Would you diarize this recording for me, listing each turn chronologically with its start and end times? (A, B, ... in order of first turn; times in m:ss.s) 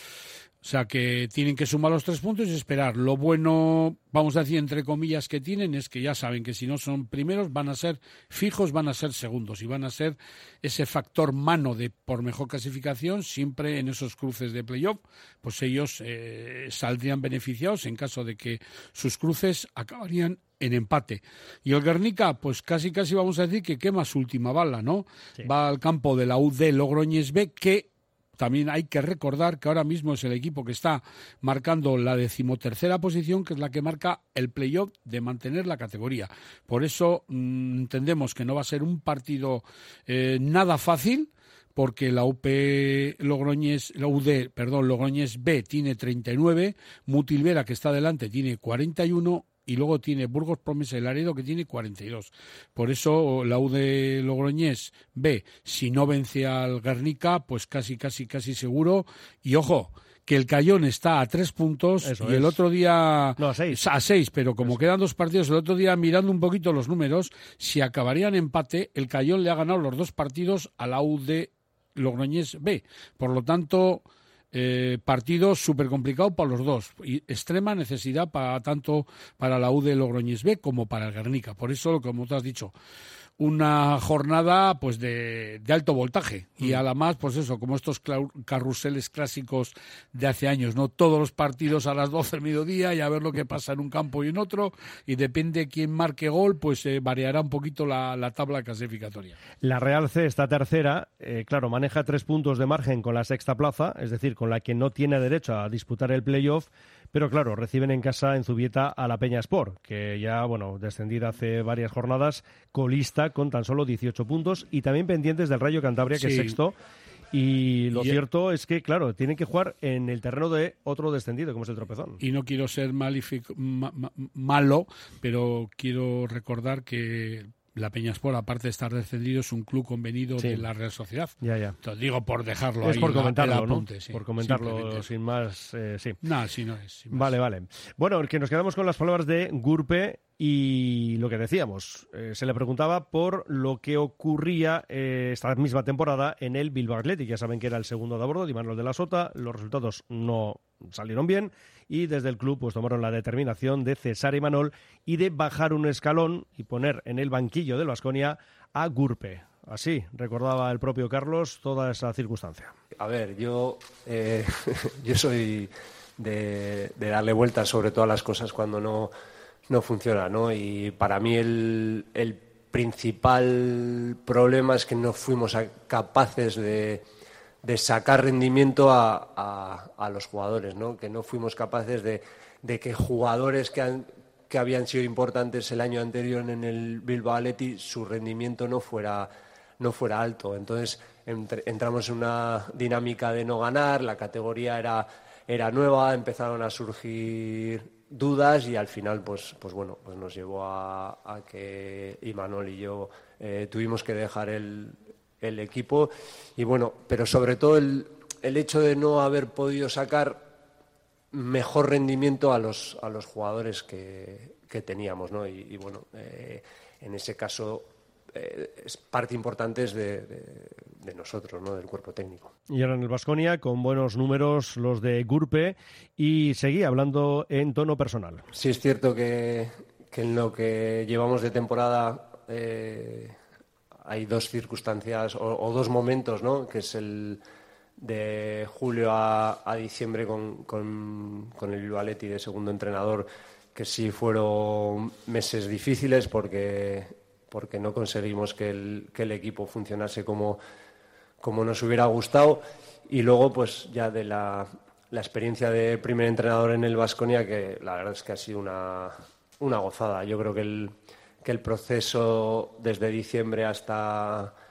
0:00.6-1:22.7 A
1:02.0-1:02.6 B
1:03.4-1:03.8 B
1:23.4-1:39.4 A
1:39.6-1:56.8 B
1:56.1-1:56.6 A
1:57.3-2:02.2 B
1:57.9-1:58.2 A
2:02.2-2:15.1 A
2:10.4-2:10.7 B
2:11.4-2:11.8 B
2:12.8-2:16.2 B
2:16.2-2:17.3 A
2:17.1-2:42.7 B
2:43.0-2:49.1 C
2:49.7-2:57.0 C
2:57.6-3:30.4 C
3:31.3-3:42.5 C
3:42.7-3:48.4 B
3:48.5-3:53.3 C
3:54.0-3:57.4 C
3:58.0-4:10.6 C
4:11.4-4:24.5 C